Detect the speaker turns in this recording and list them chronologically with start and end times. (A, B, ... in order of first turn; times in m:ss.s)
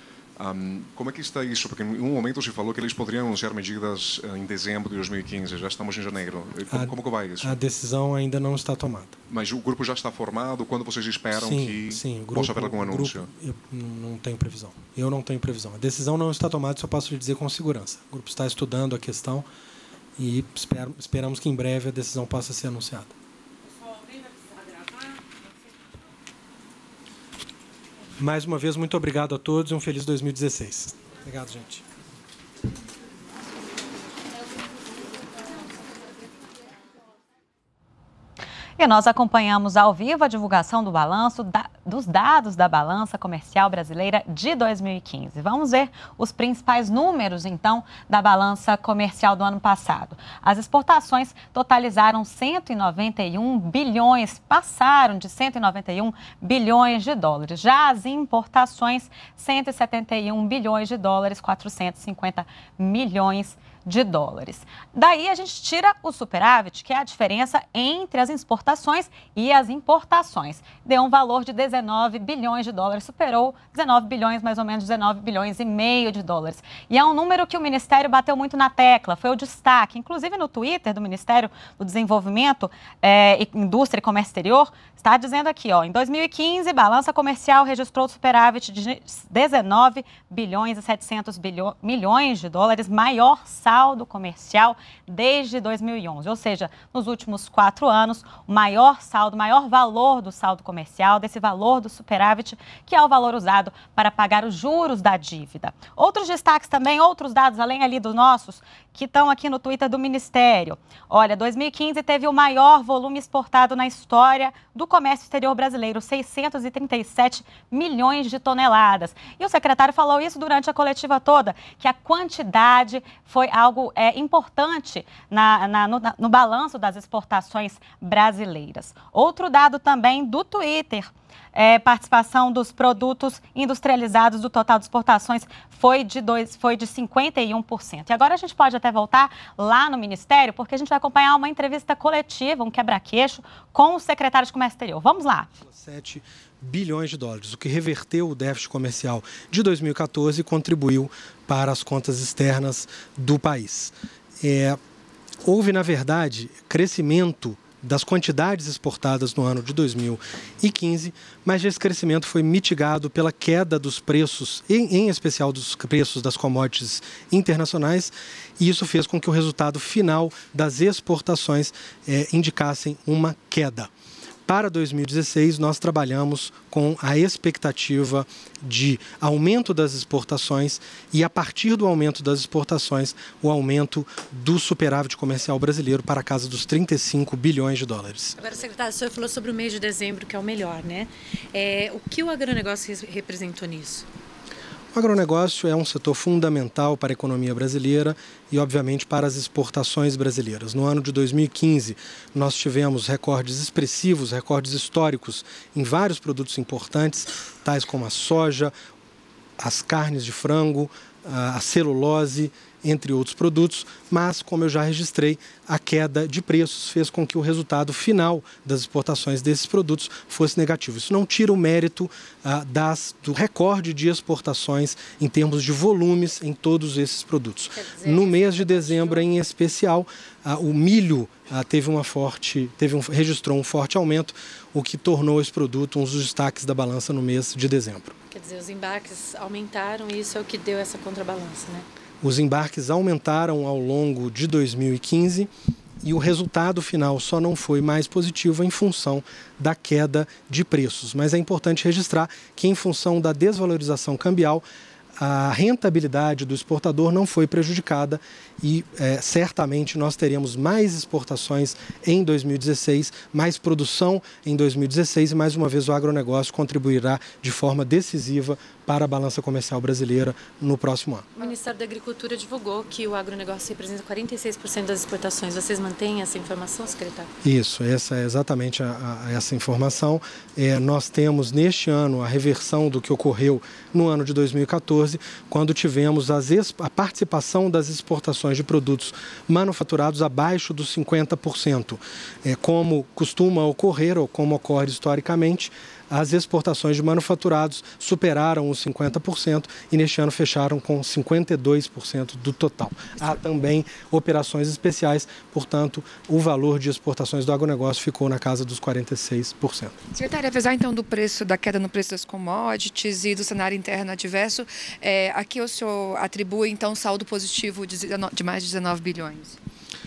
0:00.4-0:07.6 A
0:06.7-0:09.2 B
0:09.3-0:13.3 A
0:11.3-0:19.5 B
0:20.2-0:23.1 B
0:28.2-0:31.8 B
0:38.8-2:25.5 C
2:25.6-2:34.8 B
2:35.4-2:53.9 B
2:54.5-3:08.4 B
3:08.4-3:14.0 D
3:14.9-3:28.7 B
3:29.6-3:58.2 B
3:47.8-3:49.3 D
3:58.3-4:01.9 D
4:02.2-4:05.5 B
4:06.0-4:14.6 B
4:15.2-4:31.3 B
4:31.4-4:37.3 D
4:37.4-5:10.0 B
5:10.1-5:19.6 E